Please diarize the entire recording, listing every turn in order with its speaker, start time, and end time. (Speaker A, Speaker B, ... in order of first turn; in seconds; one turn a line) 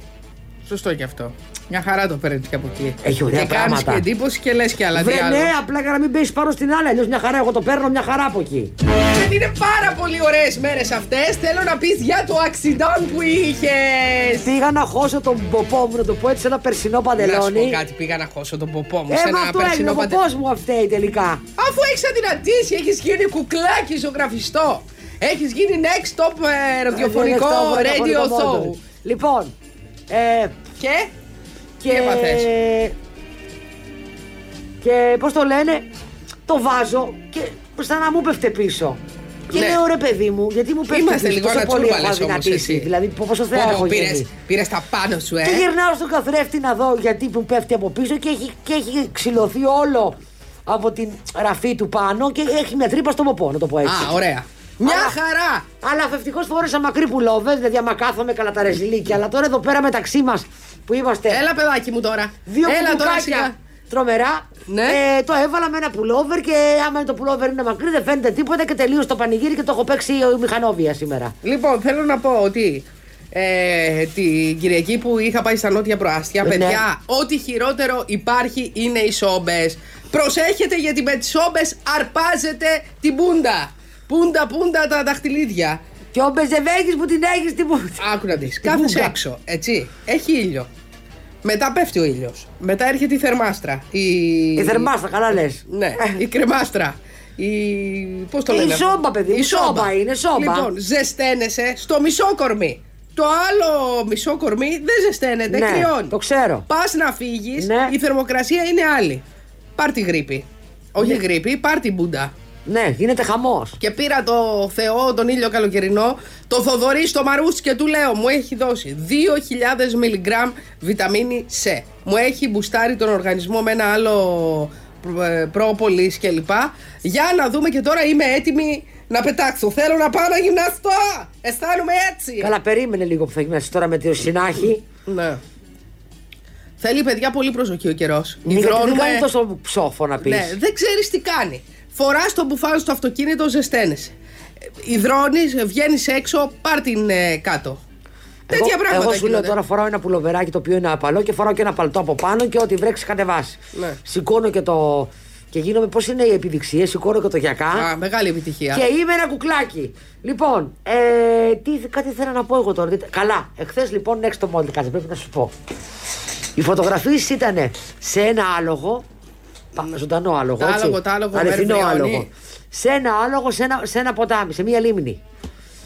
Speaker A: 0.6-5.5
Speaker B: 3.0-4.1
Speaker B: 4.9-8.7
Speaker A: 8.9-14.5
Speaker B: 14.4-17.8
Speaker A: 17.2-20.2
Speaker B: 19.1-21.4
Speaker A: 21.6-28.8
Speaker B: 26.9-29.5
Speaker B: 30.1-30.5
Speaker A: 30.8-31.1
Speaker B: 31.8-32.9
Speaker A: 31.9-32.5
Speaker B: 34.8-35.9
Speaker B: 36.5-44.3
Speaker A: 39.5-39.8
Speaker A: 40.9-42.9
Speaker A: 43.5-45.7
Speaker B: 45.4-50.1
Speaker B: 50.7-54.1
Speaker A: 53.8-55.7
Speaker B: 54.8-55.2
Speaker B: 55.8-61.4
Speaker A: 61.3-63.5
Speaker B: 62.5-71.3
Speaker A: 64.7-65.0
Speaker A: 71.4-85.8
Speaker B: 76.4-76.8
Speaker B: 86.1-88.1
Speaker A: 88.0-90.7
Speaker B: 88.6-89.2
Speaker A: 91.4-94.9
Speaker B: 94.6-96.2
Speaker A: 95.7-106.2
Speaker B: 98.5-100.7
Speaker B: 105.5-106.7
Speaker A: 106.7-109.2
Speaker B: 107.6-108.0
Speaker A: 109.8-112.3
Speaker B: 112.7-113.8
Speaker A: 113.8-132.5
Speaker B: 132.4-134.8
Speaker A: 135.1-135.4
Speaker A: 136.8-139.3
Speaker B: 138.4-140.6
Speaker A: 140.2-144.1
Speaker A: 144.8-147.8
Speaker A: 148.5-149.6
Speaker B: 148.5-157.9
Speaker A: 157.7-158.9
Speaker B: 158.7-165.5
Speaker B: 166.6-169.0
Speaker B: 169.7-175.2
Speaker A: 170.6-172.3